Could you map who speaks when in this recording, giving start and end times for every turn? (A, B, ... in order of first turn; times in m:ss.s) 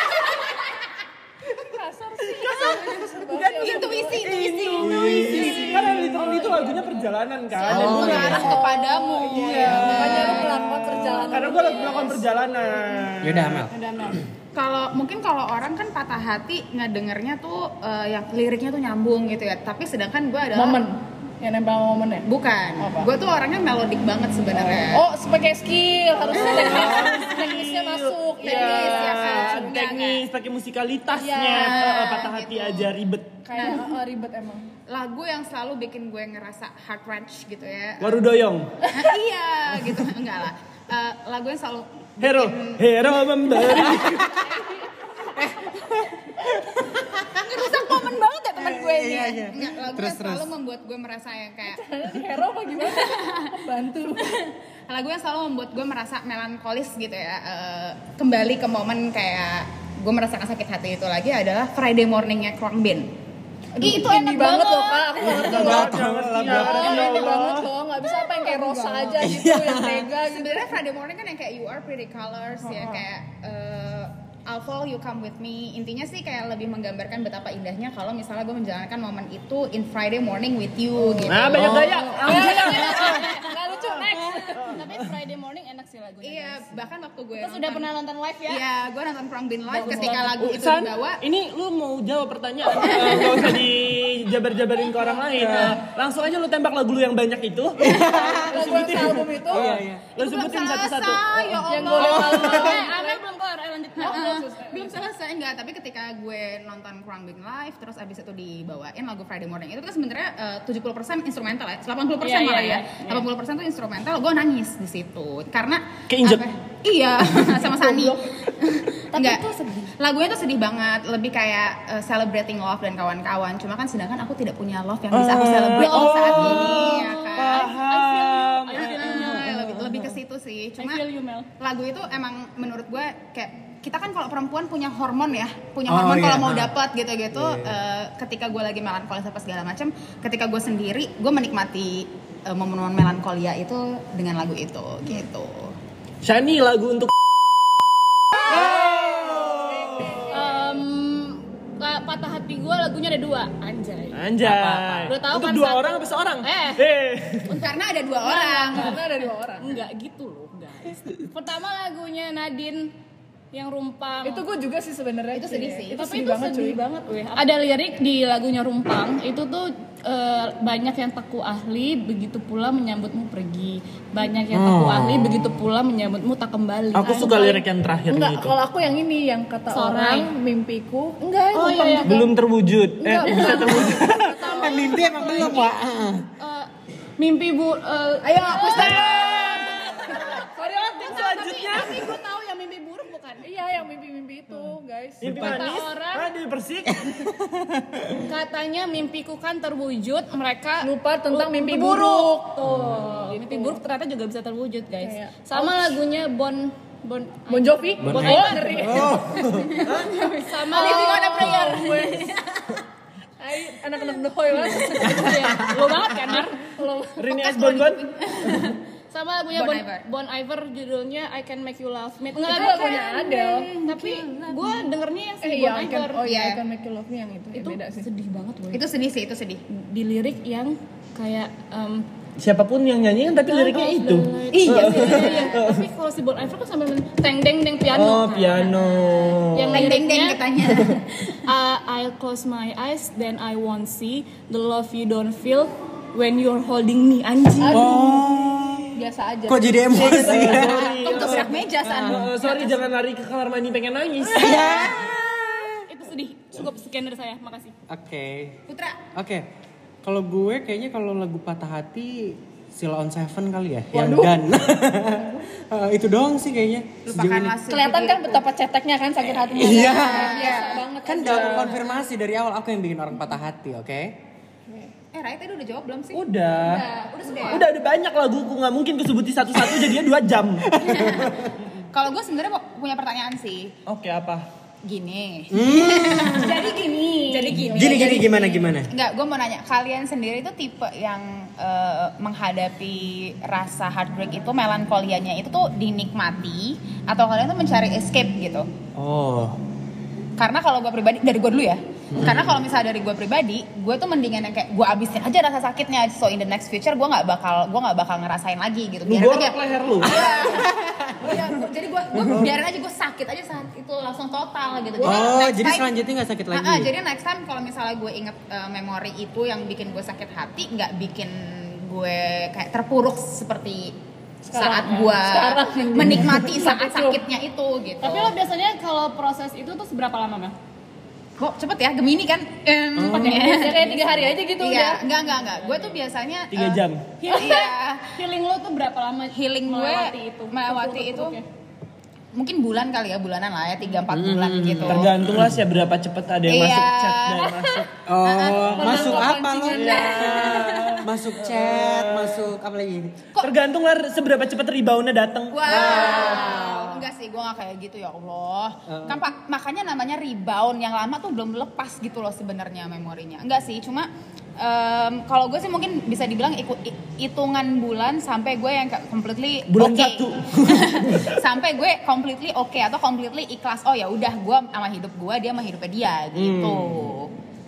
0:01.5-0:04.3 A
0:02.2-0:08.6 B
0:03.6-0:05.9 C
0:04.9-0:06.5 A
0:05.2-0:07.1 D
0:07.6-0:10.7 C
0:07.7-0:08.6 E
0:07.7-0:12.0 A
0:09.3-0:13.7 B
0:11.3-0:12.4 C
0:13.2-0:13.7 E
0:13.7-0:14.2 D
0:14.5-0:20.8 C
0:20.5-0:22.3 A
0:22.2-0:25.0 C
0:22.8-0:23.1 A
0:24.5-0:30.0 A
0:26.3-0:33.4 B
0:26.3-0:27.1 C
0:28.4-0:30.2 C
0:31.1-0:32.1 A
0:31.5-0:32.9 C
0:33.4-0:34.7 A
0:33.6-0:33.8 C
0:34.9-0:38.2 C
0:38.0-0:38.8 B
0:38.9-0:42.8 C
0:42.2-0:44.4 B
0:43.7-0:44.2 E
0:44.4-0:45.8 A
0:45.3-0:47.8 E
0:47.3-0:51.8 C
0:48.6-0:50.5 E
0:51.6-0:54.4 A
0:52.8-0:53.5 C
0:54.2-1:03.1 C
1:03.7-1:10.8 A
1:03.8-1:04.9 C
1:03.9-1:05.2 D
1:05.2-1:07.0 E
1:05.3-1:07.7 B
1:08.4-1:09.2 C
1:09.2-1:10.1 E
1:10.2-1:23.4 C
1:21.0-1:24.8 A
1:21.2-1:23.3 B
1:22.2-1:23.4 D
1:24.3-1:26.8 D
1:24.6-1:24.9 B
1:26.2-1:27.9 C
1:27.4-1:28.6 D
1:28.5-1:31.2 C
1:29.7-1:30.4 D
1:29.7-1:30.2 A
1:30.3-1:41.7 B
1:32.9-1:33.4 C
1:37.8-1:40.1 E
1:38.0-1:39.7 A
1:40.2-1:42.9 C
1:41.7-1:43.2 A
1:42.0-1:42.6 E
1:42.1-1:44.5 D
1:44.0-1:45.0 A
1:44.0-2:07.7 C
1:52.2-1:53.3 D
1:56.1-1:56.4 B
1:57.7-1:58.4 A
1:59.1-1:59.7 A
2:05.1-2:09.2 B
2:06.0-2:09.8 D
2:08.8-2:11.0 C
2:10.8-2:11.5 D
2:11.6-2:25.7 C
2:15.9-2:16.7 E
2:17.3-2:17.8 E
2:26.2-2:27.1 B
2:28.3-2:30.3 B
2:29.5-2:30.3 A
2:30.3-2:34.2 D
2:34.1-2:37.6 B
2:34.4-2:35.1 E
2:35.1-2:36.8 D
2:37.4-2:37.7 D
2:37.5-2:39.0 C
2:38.2-2:39.8 A
2:39.6-2:42.9 D
2:43.5-2:44.4 D
2:44.2-2:46.8 A
2:45.3-2:46.0 C
2:45.9-2:57.6 D
2:54.5-2:55.6 E
2:57.0-2:58.6 B
2:58.1-3:02.3 A
2:59.7-3:00.3 D
3:01.5-3:02.2 D
3:02.0-3:04.4 B
3:03.0-3:05.5 A
3:04.4-3:05.7 D
3:04.4-3:06.3 E
3:06.4-3:13.4 D
3:08.2-3:09.7 C
3:08.5-3:09.1 A
3:08.7-3:10.1 B
3:10.0-3:11.4 A
3:11.0-3:12.2 B
3:13.4-3:15.5 A
3:15.2-3:17.3 B
3:15.2-3:15.6 E
3:15.3-3:16.3 D
3:17.0-3:18.1 E
3:18.2-3:29.2 D
3:20.8-3:23.8 A
3:22.6-3:23.1 E
3:25.0-3:26.0 A
3:27.5-3:29.4 A
3:28.0-3:29.9 E
3:29.5-3:32.8 C
3:29.8-3:30.2 B
3:30.2-3:32.2 D
3:30.7-3:32.3 A
3:33.4-3:35.6 A
3:34.5-3:36.6 D
3:35.3-3:35.7 E
3:36.3-3:37.2 A
3:37.2-3:38.7 B
3:37.3-3:38.8 C
3:39.1-3:46.2 D
3:39.5-3:40.0 C
3:42.4-3:43.7 A
3:43.8-3:44.8 C
3:45.4-3:48.1 A
3:46.2-3:46.6 C
3:47.5-3:48.8 D
3:48.7-3:49.6 C
3:49.7-3:52.0 D
3:52.4-3:55.8 B
3:53.4-3:58.8 D
3:54.6-3:55.6 C
3:57.9-3:59.9 B
3:59.5-4:00.4 D
3:59.7-4:01.1 C
4:01.3-4:07.8 D
4:07.6-4:10.5 A
4:07.7-4:08.9 E
4:09.5-4:11.3 E
4:10.0-4:14.9 B
4:10.7-4:12.8 C
4:11.8-4:12.3 E
4:14.2-4:15.8 E
4:15.8-4:17.7 D
4:17.9-4:18.6 E
4:18.7-4:19.0 C
4:19.1-4:19.5 E
4:20.0-4:27.6 E
4:23.9-4:24.4 A
4:27.0-4:28.4 C
4:27.7-4:31.8 A
4:29.3-4:34.2 E
4:29.9-4:30.8 C
4:31.2-4:31.7 B
4:35.1-4:36.2 C
4:36.1-4:36.9 B
4:36.7-4:37.6 C
4:37.0-4:37.6 A
4:37.5-4:40.7 B
4:40.7-4:41.5 E
4:40.8-4:41.4 C
4:41.9-4:43.7 C
4:43.8-4:44.4 B
4:44.8-4:58.7 C
4:45.5-4:46.6 E
4:46.2-4:47.6 D
4:47.6-4:48.9 E
4:47.6-4:48.2 A
4:59.0-4:59.6 E
5:00.4-5:15.9 C
5:02.1-5:02.5 E
5:09.0-5:10.5 B
5:10.6-5:11.2 E
5:15.0-5:16.9 E
5:16.5-5:23.9 C
5:24.4-5:27.2 A
5:24.5-5:28.3 C
5:28.0-5:30.6 D
5:31.4-5:38.2 C
5:33.0-5:33.4 E
5:33.0-5:34.2 D
5:33.2-5:35.0 A
5:35.3-5:36.0 D
5:36.5-5:37.1 B
5:37.2-5:41.4 D
5:39.3-5:41.4 C
5:42.3-5:45.2 C
5:44.1-5:45.6 E
5:44.8-5:47.9 B
5:46.4-5:49.3 C
5:48.0-5:53.2 E
5:48.5-5:51.0 A
5:49.7-5:52.4 B
5:53.4-5:56.6 B
5:55.5-6:17.3 C
5:55.7-5:56.1 E
5:55.8-5:56.9 A
5:58.9-5:59.2 E
6:09.7-6:11.4 B
6:16.3-6:17.1 B